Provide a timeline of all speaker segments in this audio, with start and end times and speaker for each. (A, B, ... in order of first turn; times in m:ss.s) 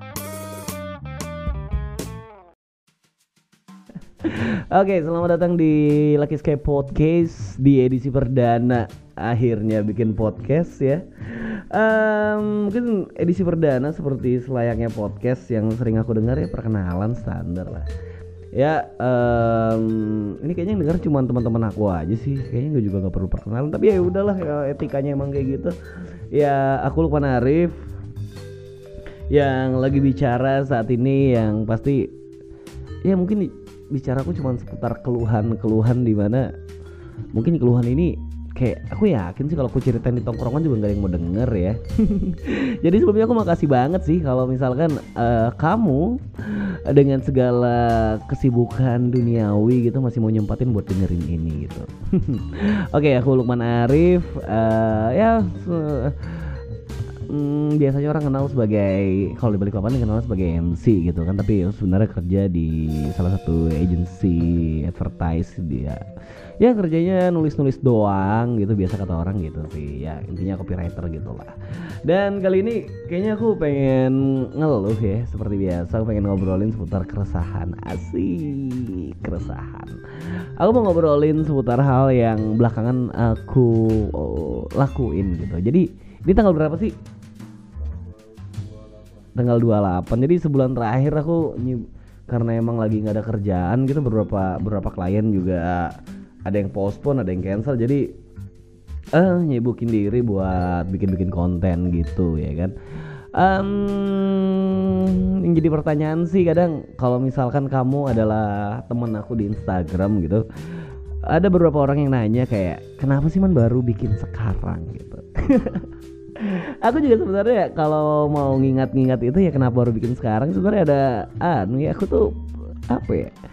0:04.2-0:17.9 A
0:18.5-0:25.8 A
0:26.3-0:27.8 A
0:29.3-0:32.1 A
0:33.0-0:36.5 A
0:37.3-0:56.6 A
0:57.3-1:06.0 A
1:06.6-1:27.0 A
1:29.3-1:38.1 A
1:39.2-1:42.8 A
1:43.3-2:03.3 A